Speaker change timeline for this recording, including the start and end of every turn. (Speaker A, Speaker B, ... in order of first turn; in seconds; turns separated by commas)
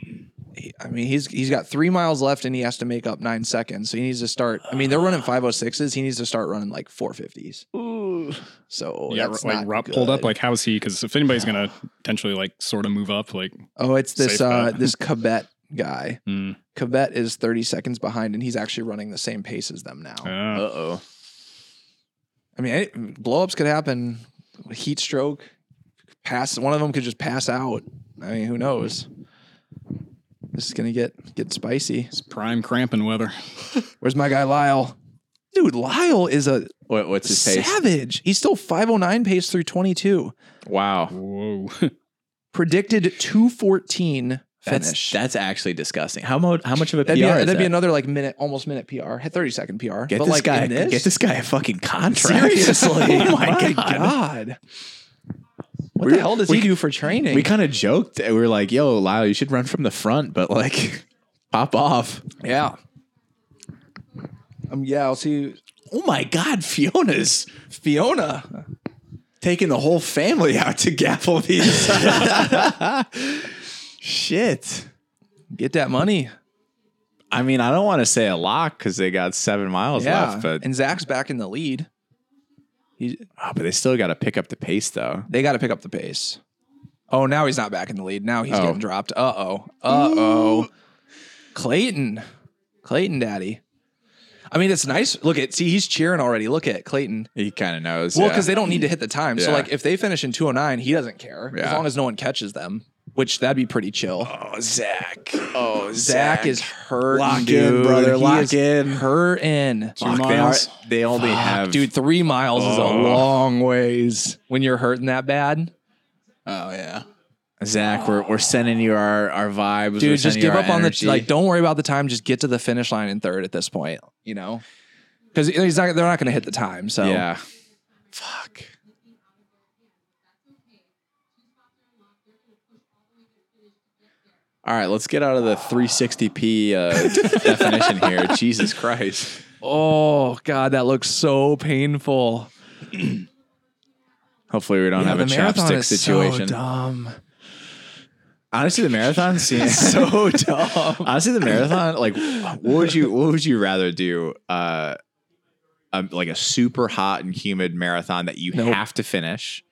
Speaker A: 0.6-7.7, Speaker B: 7.7-8.4, Speaker A: 8.7-10.3, Speaker C: 9.1-14.9, Speaker A: 13.8-16.2, Speaker C: 16.3-16.6, Speaker A: 16.7-20.3, Speaker C: 20.2-20.7, Speaker B: 20.5-21.0, Speaker A: 22.6-25.5, Speaker A: 26.2-29.1, Speaker A: 30.5-32.1, Speaker C: 32.1-33.8, Speaker A: 34.0-35.0, Speaker A: 35.5-36.7, Speaker B: 36.9-37.8, Speaker A: 37.2-40.3, Speaker B: 40.6-41.1, Speaker C: 41.1-41.9, Speaker A: 42.5-45.2, Speaker B: 44.6-47.8, Speaker A: 47.1-51.1, Speaker B: 50.1-54.2, Speaker A: 52.1-54.6, Speaker A: 56.0-57.5, Speaker B: 56.0-62.3, Speaker A: 62.4-62.8, Speaker A: 64.7-65.6, Speaker B: 65.9-67.5, Speaker A: 67.7-68.6, Speaker B: 69.4-74.9, Speaker A: 75.5-76.3, Speaker B: 77.3-80.6, Speaker A: 79.9-81.9, Speaker A: 83.0-83.3, Speaker B: 83.4-85.3, Speaker A: 85.3-86.4, Speaker A: 87.1-90.7, Speaker B: 88.5-88.8, Speaker B: 89.9-90.6, Speaker A: 91.5-92.3, Speaker A: 92.8-93.6, Speaker A: 94.5-97.3, Speaker B: 97.3-98.8, Speaker A: 98.1-104.3, Speaker B: 99.4-99.7, Speaker B: 101.5-101.9, Speaker B: 104.2-109.1, Speaker A: 105.9-110.1, Speaker B: 110.0-111.9, Speaker C: 110.0-110.7, Speaker A: 111.2-115.7, Speaker B: 112.6-113.2, Speaker C: 112.6-113.3, Speaker C: 116.5-117.0, Speaker B: 117.6-121.3, Speaker A: 120.0-124.6, Speaker A: 125.3-127.3, Speaker B: 127.0-127.4, Speaker B: 128.1-128.7, Speaker B: 134.6-139.4, Speaker A: 137.2-137.8, Speaker A: 139.6-142.5, Speaker B: 144.5-146.6, Speaker A: 144.9-147.2, Speaker B: 148.5-155.0, Speaker A: 149.6-151.1, Speaker B: 155.9-159.6, Speaker A: 158.5-158.8